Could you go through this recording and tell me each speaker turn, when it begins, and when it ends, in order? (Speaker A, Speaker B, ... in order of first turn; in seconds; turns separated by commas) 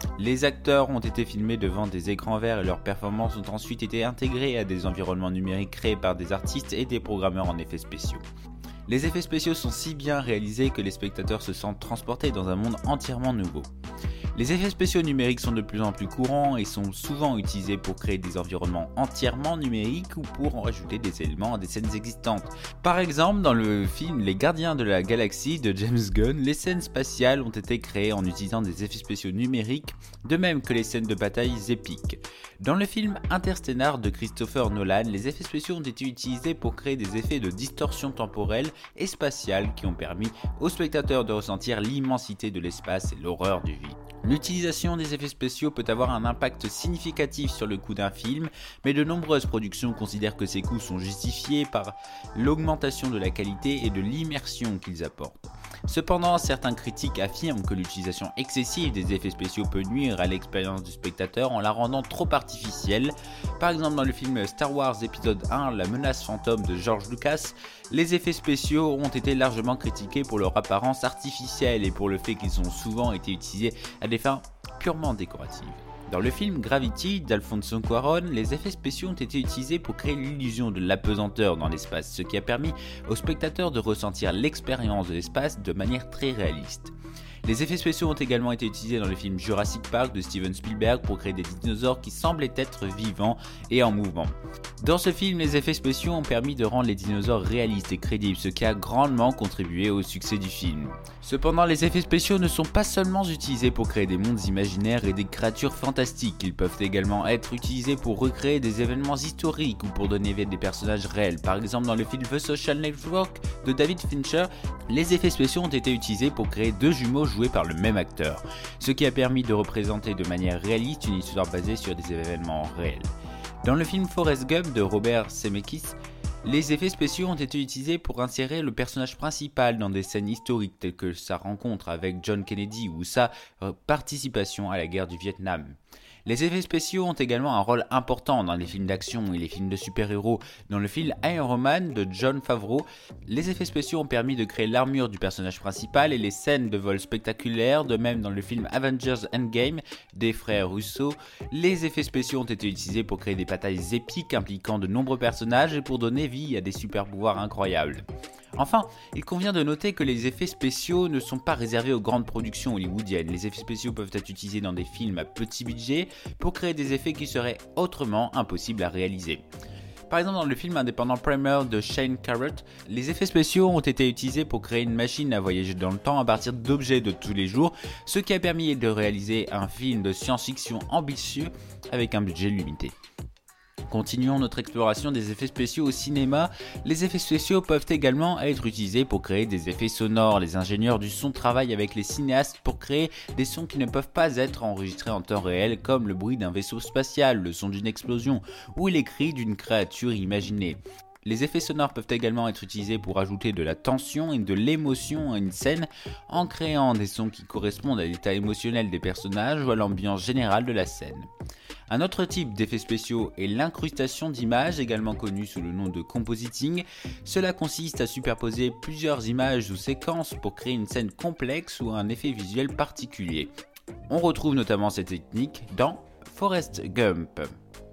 Speaker A: 0.2-8.2, Speaker A: 8.9-13.7, Speaker A: 14.3-86.9, Speaker A: 87.4-123.1, Speaker A: 123.6-158.0, Speaker A: 158.6-169.4, Speaker A: 170.1-182.9, Speaker A: 183.9-211.3, Speaker A: 211.9-223.5, Speaker A: 224.1-227.5